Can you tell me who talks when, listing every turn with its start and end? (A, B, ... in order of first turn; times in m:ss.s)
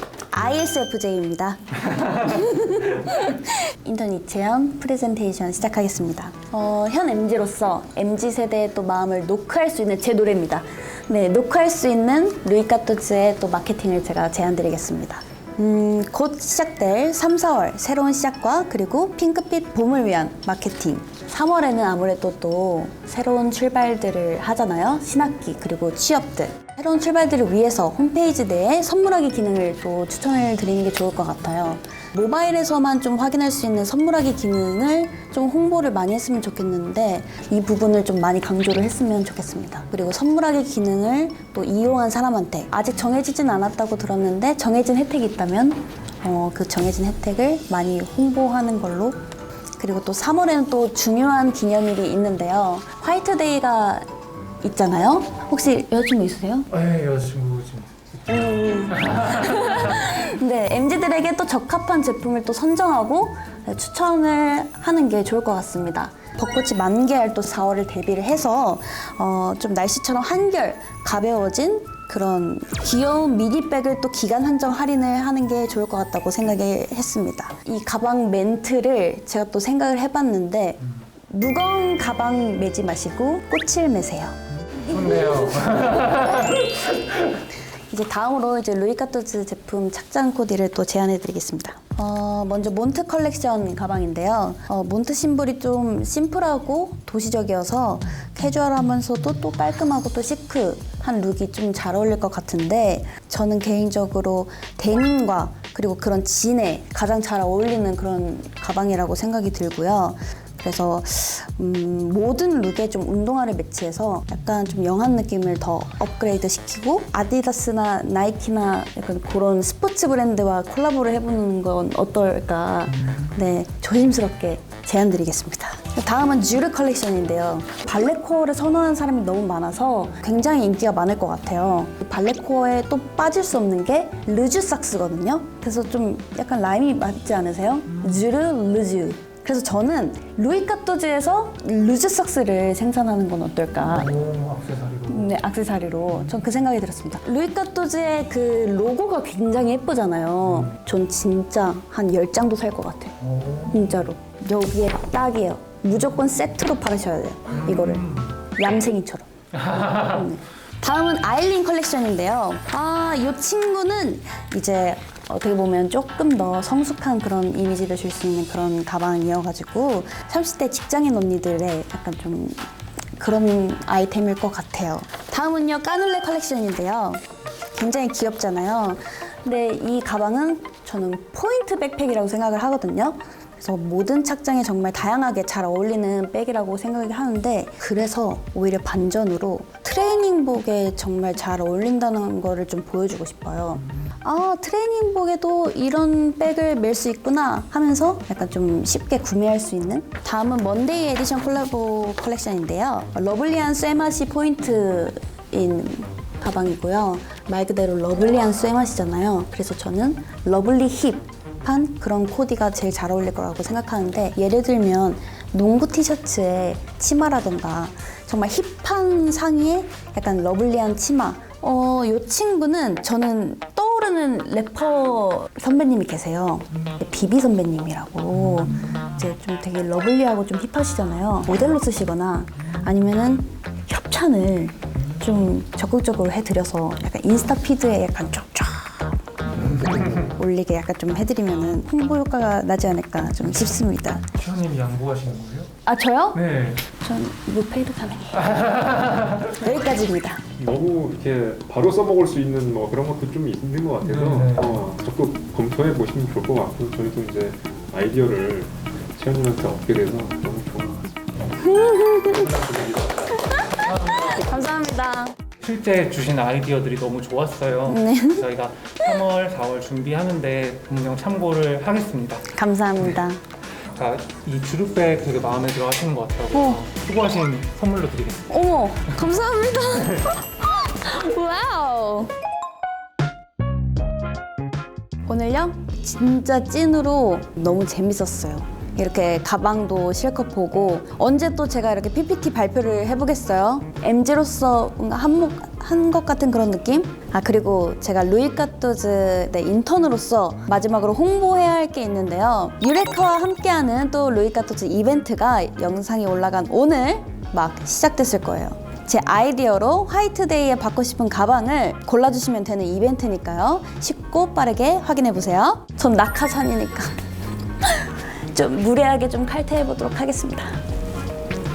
0:00.3-0:49.2 A
0:02.0-0:02.8 B
0:49.8-0:54.0 A
0:54.6-0:56.7 A
0:56.7-0:57.9 B
0:58.3-1:24.4 A
0:58.9-1:00.0 B
1:24.7-1:27.5 B
1:27.9-2:24.1 A
2:23.8-2:25.3 B
2:25.1-2:33.2 A
2:30.5-2:30.7 B
2:33.2-2:34.1 B
2:33.7-2:39.3 A
2:37.5-2:38.3 B
2:39.5-2:40.3 B
2:39.9-2:57.2 A
2:57.7-4:04.3 A
4:03.5-4:05.7 B
4:05.8-4:06.4 A
4:06.3-4:06.9 B
4:06.9-4:08.5 A
4:08.3-4:09.8 B
4:09.5-4:10.4 A
4:10.6-4:21.1 C
4:14.0-4:14.9 B
4:21.6-4:22.5 A
4:22.3-4:23.4 C
4:23.3-4:25.4 A
4:25.6-4:32.4 B
4:27.9-4:28.5 A
4:32.5-4:33.4 A
4:33.9-4:38.5 B
4:36.5-4:36.8 A
4:38.5-4:42.3 A
4:45.3-5:17.2 A
5:17.8-5:20.8 A